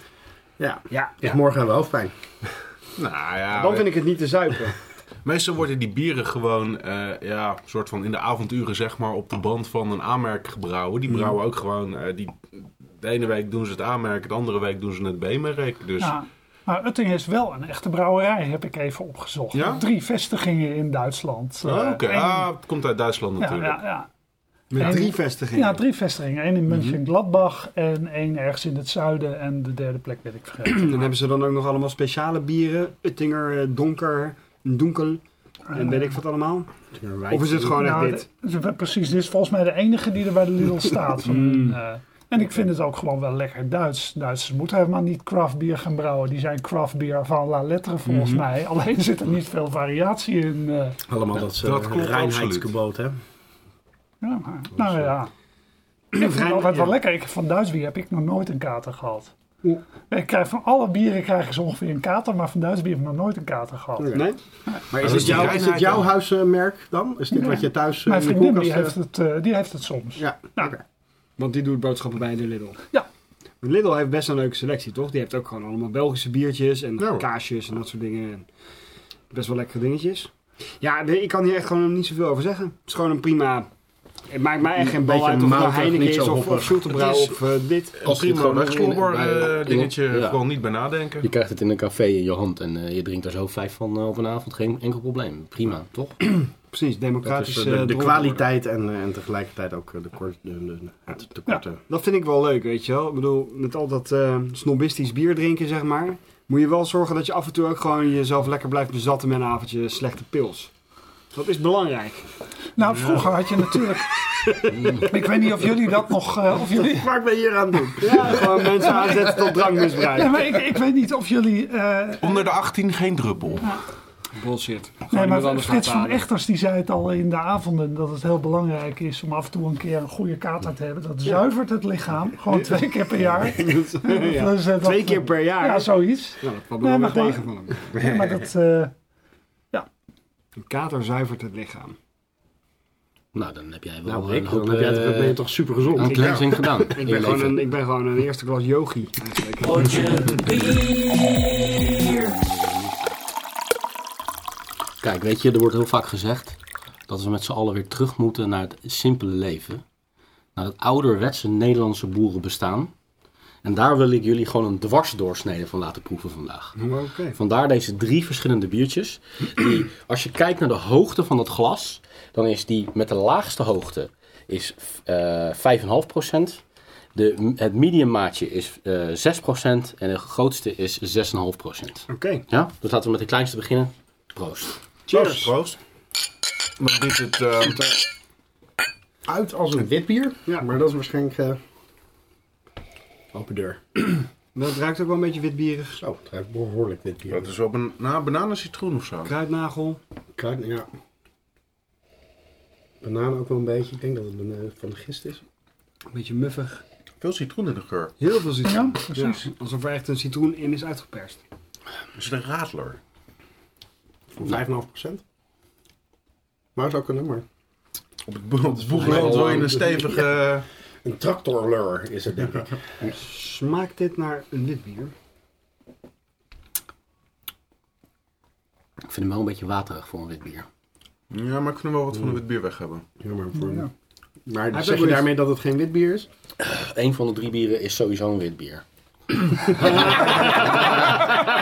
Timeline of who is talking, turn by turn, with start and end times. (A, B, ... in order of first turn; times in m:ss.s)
0:00.6-0:02.1 A
0:00.9-0:01.4 B
0:03.0-0:03.9 C
0:03.5-0:04.8 B
0:05.2-0:16.1 C
0:16.0-0:22.5 D
0:19.5-0:19.8 C
0:21.6-0:23.8 C
0:23.4-0:24.1 D
0:24.7-0:25.8 B
0:24.7-0:31.0 D
0:30.6-0:35.2 B
0:35.7-0:36.7 B
0:35.7-0:36.0 D
0:36.9-0:38.0 A
0:37.3-0:38.2 B
0:37.7-0:51.0 D
0:41.2-0:41.8 B
0:48.0-0:48.4 B
0:51.1-0:53.2 A
0:51.6-0:52.7 C
0:54.2-0:55.3 D
0:56.1-0:57.0 B
0:56.1-0:59.3 D
1:00.1-1:04.8 D
1:04.0-1:04.2 A
1:04.1-1:04.4 B
1:04.9-1:05.9 B
1:04.9-1:08.9 A
1:05.0-1:06.1 C
1:07.3-1:10.7 D
1:10.2-1:10.8 A
1:11.4-1:12.8 B
1:13.6-1:18.5 B
1:17.0-1:17.2 C
1:19.3-1:23.7 B
1:24.3-1:28.0 B
1:24.8-1:26.9 A
1:26.9-1:27.4 C
1:27.9-1:31.3 C
1:28.0-1:30.4 E
1:31.2-1:36.2 E
1:36.7-1:38.4 B
1:37.2-1:41.8 A
1:41.9-1:50.7 B
1:51.3-1:52.3 B
1:52.8-1:57.1 D
1:53.0-1:55.0 B
1:56.5-1:59.7 A
1:58.0-2:00.3 B
1:58.9-1:59.3 D
2:00.1-2:02.4 D
2:02.2-2:03.8 C
2:04.4-2:06.2 B
2:05.1-2:18.9 D
2:13.4-2:17.8 B
2:18.0-2:18.3 A
2:20.6-2:22.0 B
2:23.3-2:25.4 E
2:24.0-2:26.6 A
2:25.9-2:27.6 E
2:26.2-2:26.5 C
2:26.9-2:30.4 B
2:29.7-2:33.1 E
2:35.0-2:36.6 E
2:37.1-2:39.8 E
2:40.6-2:42.9 E
2:43.6-2:46.8 E
2:46.8-2:47.4 B
2:47.3-2:56.6 E
2:57.1-3:04.7 E
3:02.1-3:02.4 B
3:05.1-3:05.5 B
3:05.1-3:05.8 C
3:06.8-3:07.9 C
3:09.2-3:11.6 A
3:13.3-3:13.8 A
3:14.5-3:16.0 B
3:16.0-3:17.5 A
3:17.3-3:19.3 C
3:19.2-3:20.0 B
3:20.4-3:20.9 A
3:23.0-3:25.4 A
3:26.1-3:26.8 B
3:27.2-3:28.1 C
3:28.2-3:31.4 B
3:28.6-3:29.4 D
3:32.1-3:33.0 C
3:34.3-3:35.2 A
3:36.8-3:37.4 A
3:38.3-3:40.6 C
3:38.9-3:39.9 A
3:38.9-3:39.8 E
3:41.0-3:42.7 A
3:43.0-3:45.1 B
3:49.1-3:50.6 E
3:51.3-3:53.0 C
3:53.2-3:53.9 A
3:53.6-3:53.9 D
3:54.5-3:56.3 A
3:54.7-3:55.4 B
3:56.6-3:58.8 E
3:59.6-4:01.3 E